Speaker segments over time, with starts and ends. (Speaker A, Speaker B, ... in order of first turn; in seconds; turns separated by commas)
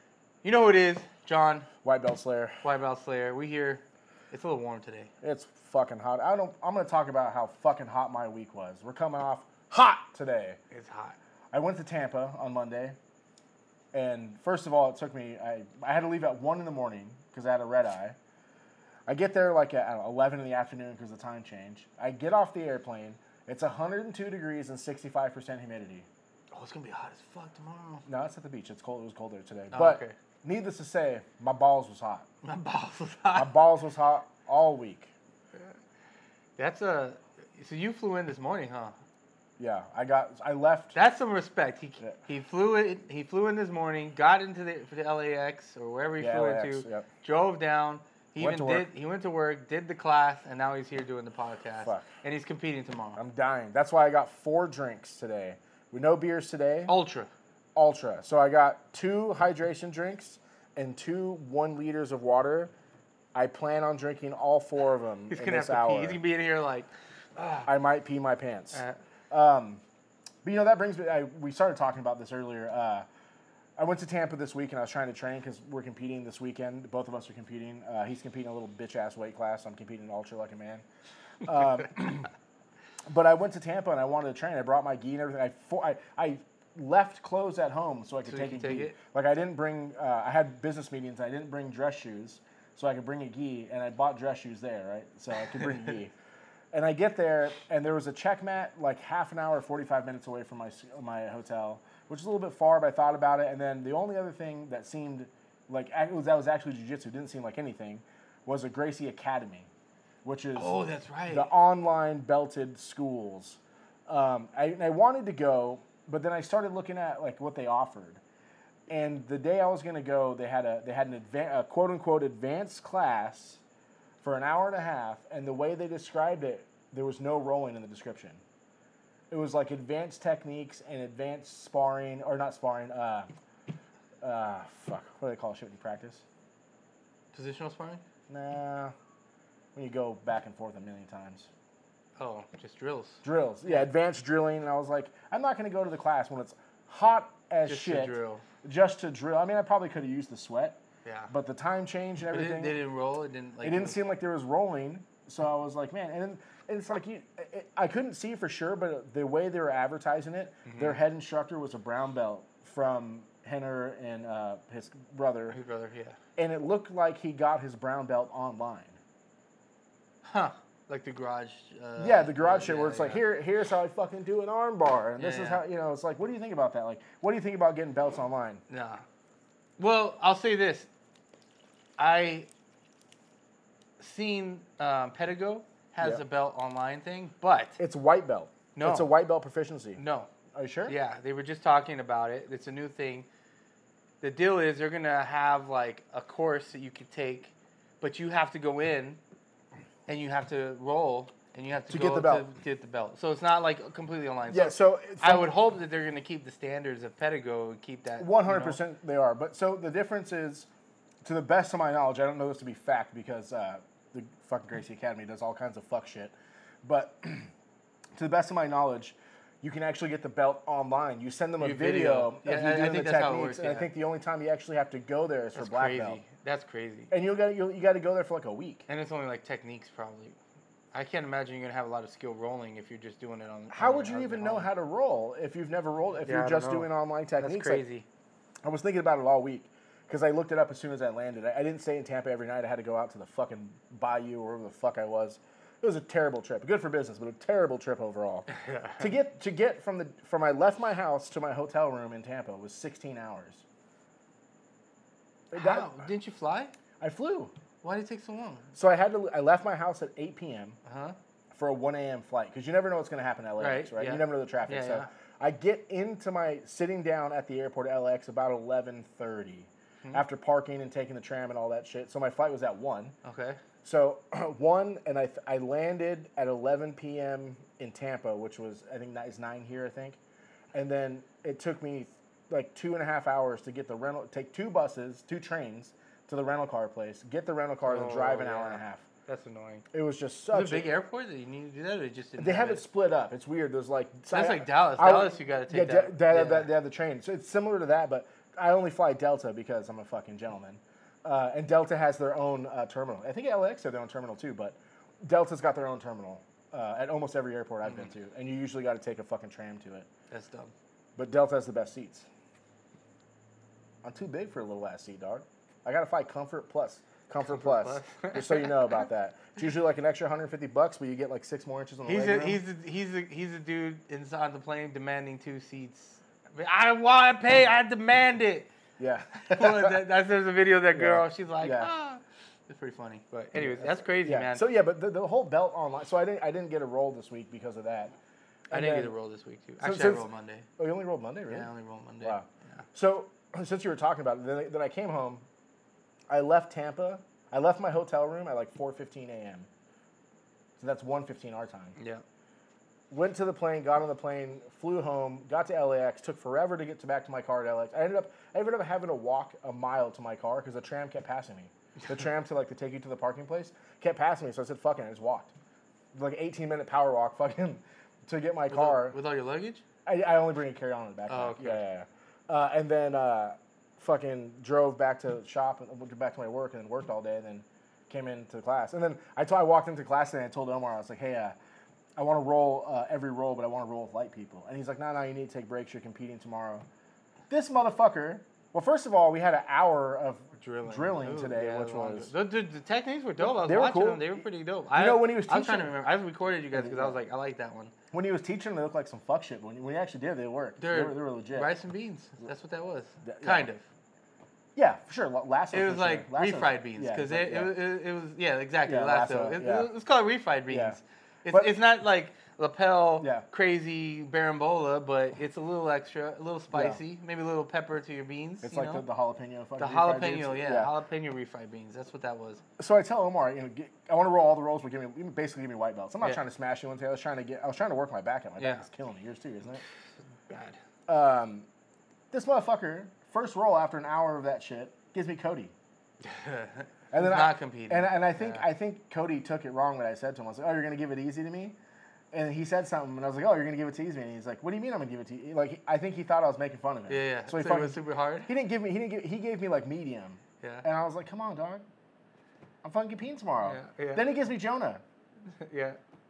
Speaker A: 0.4-1.7, Speaker B: 1.8-2.6, Speaker A: 2.6-5.1, Speaker B: 5.2-10.6, Speaker A: 10.7-11.2, Speaker B: 11.5-13.0, Speaker B: 13.9-18.2, Speaker B: 19.1-26.1, Speaker A: 26.5-28.1, Speaker B: 28.1-32.3, Speaker A: 29.7-30.1, Speaker A: 32.4-33.5, Speaker B: 33.4-35.1, Speaker A: 36.6-39.0, Speaker B: 39.6-41.0, Speaker A: 40.9-53.2, Speaker B: 46.2-47.1, Speaker B: 48.4-48.9, Speaker B: 51.8-52.1, Speaker B: 53.2-56.9, Speaker A: 56.9-57.3, Speaker B: 57.8-62.7, Speaker B: 63.3-66.2, Speaker A: 65.3-67.7, Speaker B: 67.7-69.8, Speaker B: 70.4-73.1, Speaker B: 73.8-80.8, Speaker B: 81.4-82.3, Speaker B: 83.1-96.1, Speaker A: 88.3-89.0, Speaker B: 96.7-109.7, Speaker B: 110.2-118.2, Speaker A: 110.6-111.5, Speaker B: 118.9-123.6, Speaker B: 124.2-128.4, Speaker B: 129.3-133.3, Speaker B: 134.2-136.2, Speaker A: 137.3-138.0, Speaker B: 138.3-138.9, Speaker B: 139.8-141.5, Speaker A: 142.2-143.9, Speaker B: 143.2-150.8, Speaker A: 147.7-148.4, Speaker A: 151.1-151.3, Speaker B: 151.3-152.8, Speaker A: 152.2-154.0, Speaker B: 153.6-165.6, Speaker A: 160.7-161.0, Speaker A: 165.5-166.2, Speaker B: 166.4-169.0, Speaker A: 170.2-173.2, Speaker B: 172.0-178.6, Speaker A: 175.2-175.6, Speaker A: 178.7-179.0, Speaker A: 179.8-180.9, Speaker A: 182.0-182.5, Speaker A: 184.0-187.8, Speaker B: 187.8-190.0, Speaker A: 188.8-189.1, Speaker A: 190.0-190.3, Speaker B: 190.5-191.0, Speaker A: 190.9-193.3, Speaker A: 194.2-199.2, Speaker A: 200.1-208.8, Speaker B: 201.9-202.5, Speaker B: 204.5-205.5, Speaker B: 208.2-210.7, Speaker B: 211.2-217.5, Speaker B: 218.2-226.2, Speaker A: 221.6-223.9, Speaker A: 225.6-227.1, Speaker B: 227.1-228.9, Speaker A: 228.9-230.4, Speaker A: 230.9-234.7, Speaker B: 233.7-237.8, Speaker A: 236.2-238.1, Speaker B: 238.6-248.5, Speaker A: 248.5-249.1, Speaker B: 249.0-253.6, Speaker B: 255.5-256.1, Speaker A: 255.5-256.7, Speaker B: 257.0-257.5, Speaker A: 257.8-258.7, Speaker B: 258.7-260.8, Speaker A: 260.9-261.2, Speaker B: 261.5-273.1, Speaker A: 263.6-265.1, Speaker A: 273.2-273.6, Speaker B: 273.8-280.2, Speaker B: 280.7-289.0, Speaker A: 287.8-289.9, Speaker B: 289.9-290.9, Speaker A: 290.5-292.9, Speaker B: 292.4-310.1, Speaker A: 294.3-296.7, Speaker A: 310.3-310.7, Speaker B: 311.2-312.3, Speaker B: 314.0-322.6, Speaker A: 317.4-318.9, Speaker A: 322.1-328.7, Speaker B: 329.0-330.0, Speaker A: 329.5-334.6, Speaker B: 330.9-331.9, Speaker B: 333.5-338.1, Speaker B: 338.7-339.1, Speaker A: 338.7-340.7, Speaker B: 339.8-341.7, Speaker A: 341.5-342.9, Speaker B: 342.2-345.4, Speaker B: 346.3-349.7, Speaker B: 350.8-352.0, Speaker A: 352.0-352.2, Speaker B: 353.1-365.5, Speaker B: 366.1-369.2, Speaker A: 368.7-369.8, Speaker B: 370.1-381.6, Speaker A: 371.3-371.8, Speaker B: 382.2-386.9, Speaker B: 387.5-392.3, Speaker A: 390.6-397.9, Speaker B: 393.4-395.9, Speaker B: 396.7-397.2, Speaker B: 398.1-401.7, Speaker A: 400.8-403.9, Speaker B: 403.2-403.7, Speaker B: 404.8-407.7, Speaker A: 405.7-419.1, Speaker B: 408.9-409.9, Speaker B: 410.7-411.8, Speaker B: 413.2-413.5, Speaker B: 416.7-417.0, Speaker B: 418.6-420.9, Speaker A: 419.8-422.6, Speaker B: 422.8-429.8, Speaker A: 428.6-428.9, Speaker A: 430.5-430.8, Speaker B: 431.1-431.7, Speaker B: 432.3-435.7, Speaker A: 436.2-438.7, Speaker B: 437.1-441.8, Speaker B: 442.3-451.9, Speaker A: 447.1-448.5, Speaker A: 450.6-450.9, Speaker B: 452.8-455.0, Speaker A: 453.6-454.3, Speaker A: 455.5-456.0